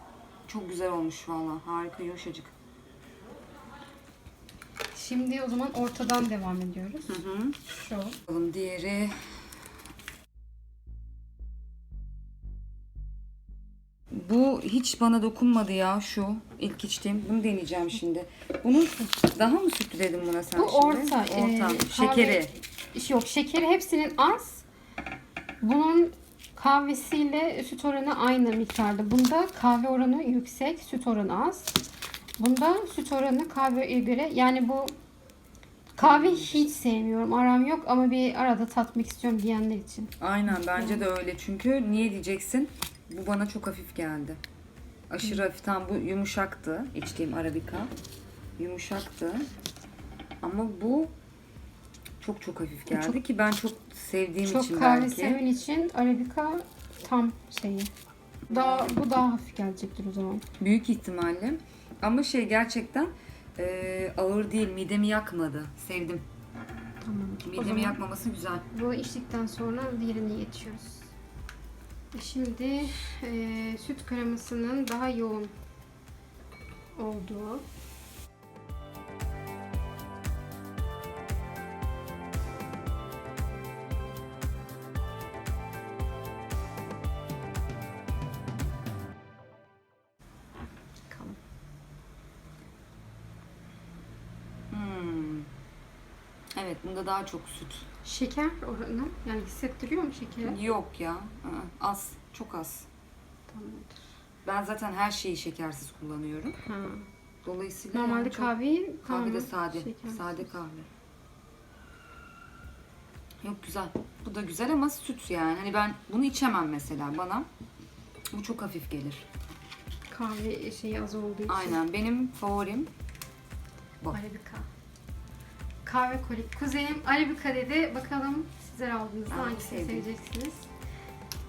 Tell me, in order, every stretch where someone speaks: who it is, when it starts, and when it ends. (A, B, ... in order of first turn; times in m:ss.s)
0:00.5-0:02.5 A
0:04.9-0:08.2 B
0:07.1-0:07.6 A
0:08.3-0:09.2 A
0:14.1-0:22.5 A
0:20.6-0:24.6 B
0:25.6-0:31.8 B
0:32.4-0:35.0 B
0:36.0-0:41.0 B
0:36.0-0:36.5 A
0:40.2-0:44.4 A
0:45.1-0:47.9 A
0:48.6-0:49.5 A
0:50.4-0:51.1 A
0:52.2-0:55.4 A
0:52.9-0:53.2 B
0:54.4-0:57.9 B
0:58.5-0:59.0 A
0:58.5-1:00.5 B
1:00.6-1:06.3 A
1:07.0-1:08.0 B
1:07.4-1:08.6 A
1:08.7-1:11.1 B
1:12.1-1:15.6 B
1:17.0-1:17.6 B
1:31.1-1:31.4 B
1:34.7-1:35.5 A
1:36.6-1:37.9 A
1:38.0-1:40.6 B
1:40.4-1:42.9 A
1:43.5-1:44.1 B
1:44.4-1:46.6 A
1:46.6-1:47.1 B
1:47.4-1:50.9 A
1:47.9-1:50.4 B
1:53.4-1:57.5 A
1:58.3-1:59.3 A
2:00.1-2:01.8 B
2:01.5-2:02.9 A
2:04.1-2:04.7 B
2:05.8-2:10.7 B
2:09.3-2:10.1 A